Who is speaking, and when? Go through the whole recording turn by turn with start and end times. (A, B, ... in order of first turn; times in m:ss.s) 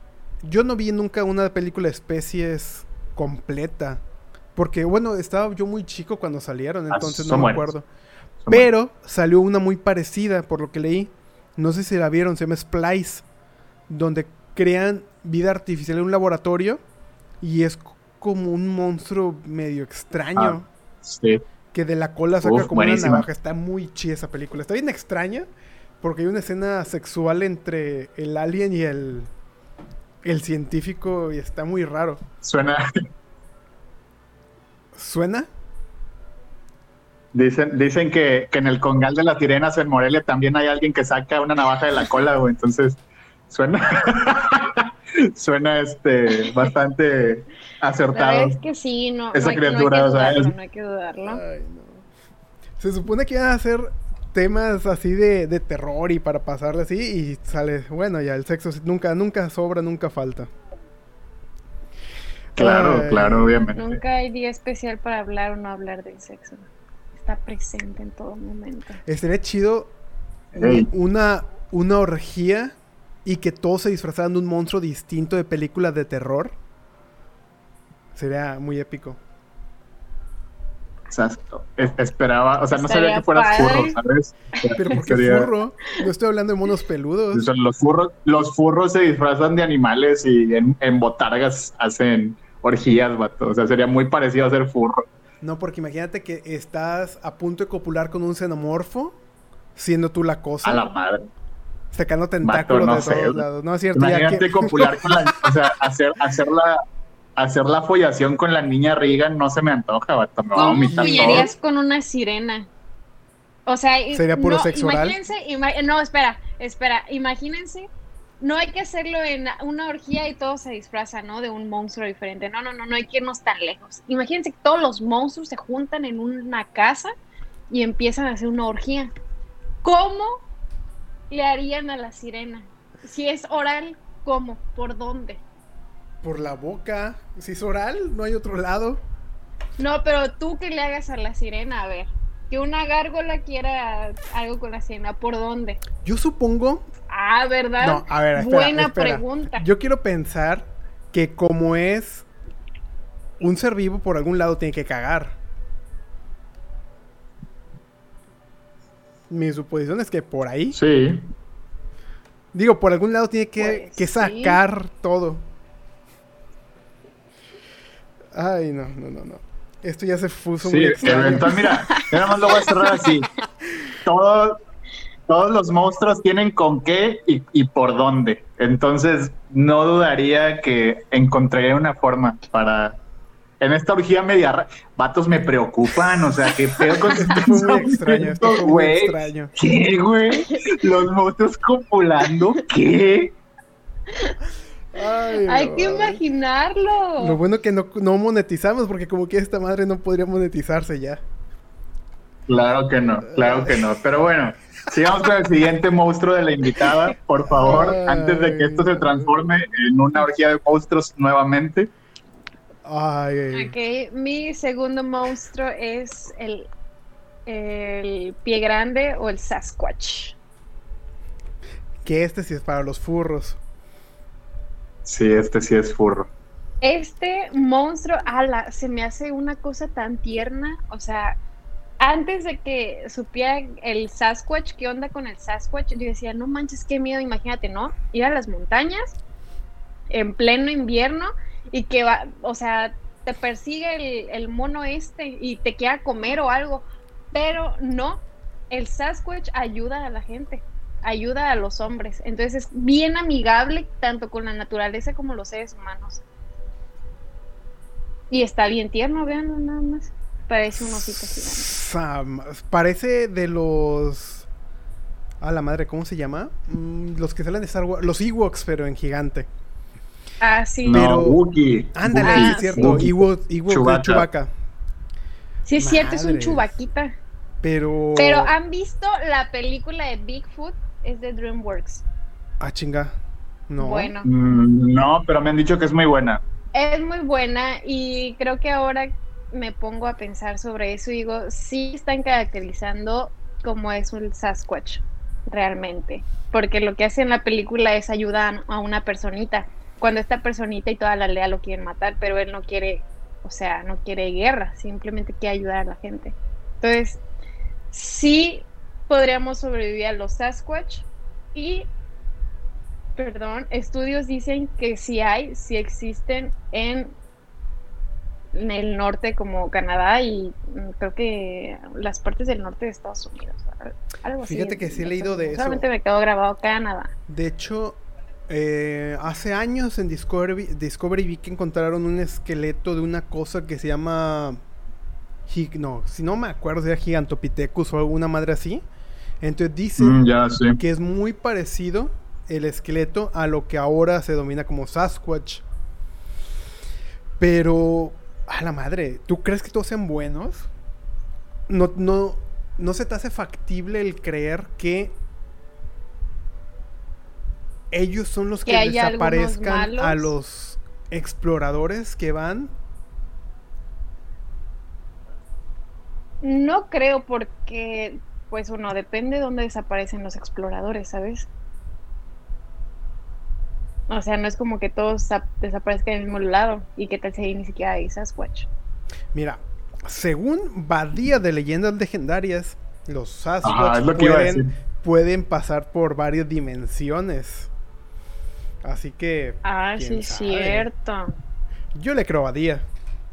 0:00.4-0:04.0 A
0:04.6-0:07.8 A
0:06.9-0:07.7 B
0:08.5-0:13.2 A
0:13.9-0:16.8 A
0:17.4-0:20.7 A
0:20.4-0:21.4 B
0:21.7-0:25.5 A
0:22.4-0:23.2 B
0:26.0-0:29.3 A
0:30.2-0:32.2 A
0:32.4-0:32.8 B
0:34.9-0:35.5 A
0:37.3-0:48.6 B
0:48.1-0:51.4 C
0:49.3-0:50.5 B
0:51.2-0:52.0 A
0:52.8-1:00.5 A
1:02.6-1:03.6 A
1:02.6-1:04.0 B
1:03.7-1:09.0 C
1:09.0-1:09.9 A
1:10.5-1:10.9 B
1:10.5-1:16.6 A
1:18.1-1:19.2 A
1:21.1-1:25.5 B
1:22.7-1:24.0 C
1:24.7-1:27.5 A
1:27.3-1:35.1 B
1:35.4-1:39.2 A
1:39.8-1:40.8 A
1:40.6-1:41.2 B
1:41.9-1:45.3 A
1:42.4-1:46.8 B
1:47.4-1:51.5 B
1:50.5-1:52.7 C
1:50.6-1:51.5 A
1:53.6-1:57.9 C
1:54.1-1:55.2 A
1:58.4-2:07.1 C
2:07.7-2:09.1 C
2:09.8-2:10.4 C
2:11.3-2:15.4 C
2:16.2-2:19.0 A
2:19.8-2:25.8 C
2:26.0-2:26.8 A
2:27.1-2:29.6 C
2:27.8-2:32.2 A
2:33.4-2:35.4 A
2:39.3-2:40.8 A
2:40.7-2:41.3 B
2:42.5-2:45.4 A
2:43.6-2:44.6 C
2:48.3-2:51.8 A
2:50.6-2:53.3 B
2:51.4-2:52.1 C
2:54.0-2:54.6 B
2:55.3-3:03.0 B
3:03.6-3:13.3 B
3:07.0-3:09.5 A
3:14.9-3:16.2 A
3:15.4-3:17.4 C
3:17.2-3:21.2 A
3:22.5-3:31.9 B
3:23.2-3:23.8 A
3:27.6-3:29.4 A
3:32.8-3:33.7 A
3:33.5-3:36.7 C
3:37.5-3:40.4 C
3:42.0-3:43.6 A
3:45.0-3:46.3 B
3:46.8-3:51.4 C
3:52.0-3:59.1 C
4:00.1-4:16.2 C
4:18.3-4:21.8 C
4:20.8-4:24.5 A
4:25.4-4:29.5 A
4:30.4-4:31.0 C
4:30.8-4:34.2 B
4:30.9-4:31.4 A
4:31.9-4:34.5 A
4:32.2-4:33.0 C
4:35.6-4:37.2 C
4:35.8-4:36.7 A
4:37.6-4:38.5 A
4:38.2-4:42.0 C
4:42.6-4:43.1 A
4:43.7-4:44.1 A
4:43.8-4:44.3 C
4:44.2-4:46.4 B
4:46.7-5:07.2 C
5:07.9-5:11.9 C
5:13.2-5:17.1 C
5:18.5-5:27.1 C
5:24.4-5:25.8 A
5:27.3-5:34.6 A
5:35.5-5:38.8 A
5:39.4-5:40.2 A
5:40.0-5:40.8 B
5:40.8-5:45.6 A
5:47.4-5:50.7 A
5:51.7-5:55.2 A
5:57.9-6:02.7 A
5:58.6-6:00.3 C
6:06.4-6:11.5 C
6:14.1-6:18.7 C
6:19.3-6:27.7 A
6:23.6-6:24.7 B
6:28.8-6:30.9 A
6:29.6-6:31.3 C
6:31.9-6:32.8 A